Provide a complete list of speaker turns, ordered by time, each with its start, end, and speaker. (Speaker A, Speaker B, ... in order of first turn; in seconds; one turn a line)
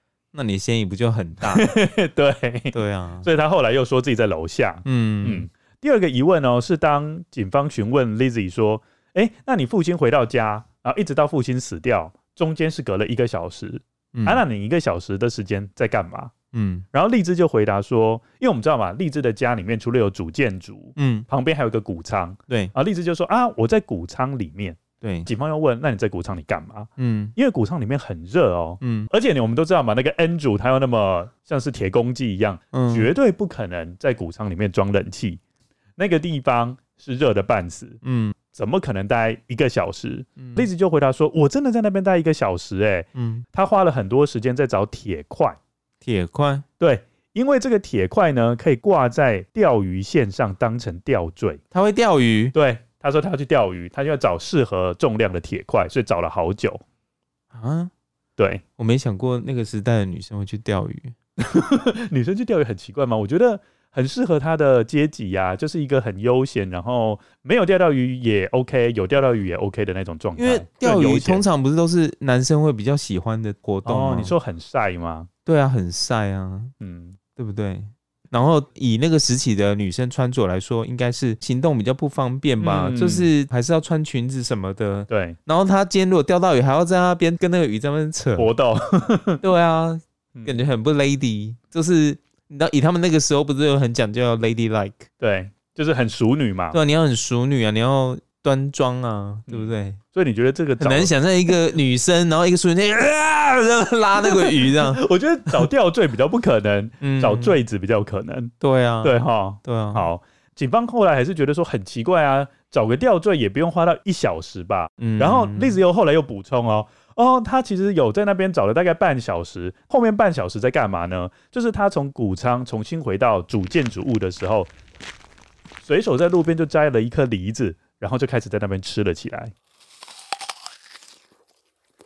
Speaker A: 0.3-1.7
Speaker B: 1.4-16.3
Speaker A: 2.7-3.3
Speaker A: 4.8-5.5
Speaker A: 14.1-14.4
Speaker A: 16.5-16.9
Speaker B: 16.9-35.4
Speaker A: 20.9-21.3
Speaker A: 25.0-25.3
Speaker A: 27.0-27.3
Speaker A: 28.8-29.1
Speaker A: 32.7-33.1
Speaker B: 36.0-38.0
Speaker A: 38.0-38.4
Speaker B: 38.5-45.6
Speaker A: 40.4-40.7
Speaker A: 43.1-43.4
Speaker A: 46.0-46.6
Speaker B: 46.8-51.6
Speaker A: 51.7-52.5
Speaker B: 52.5-56.8
Speaker A: 57.5-57.9
Speaker B: 58.4-58.6
Speaker A: 58.8-61.1
Speaker B: 61.4-71.4
Speaker A: 70.3-74.3
Speaker B: 73.8-75.3
Speaker A: 75.5-76.7
Speaker B: 76.8-77.2
Speaker A: 77.3-88.5
Speaker B: 82.6-83.3
Speaker B: 85.1-85.4
Speaker B: 88.4-89.4
Speaker A: 89.4-95.1
Speaker B: 95.2-96.8
Speaker A: 96.7-100.0
Speaker B: 99.5-101.1
Speaker A: 100.8-105.7
Speaker B: 104.2-108.5
Speaker A: 107.0-107.5
Speaker A: 108.6-110.1
Speaker B: 109.0-124.7
Speaker A: 115.0-115.8
Speaker B: 125.8-129.5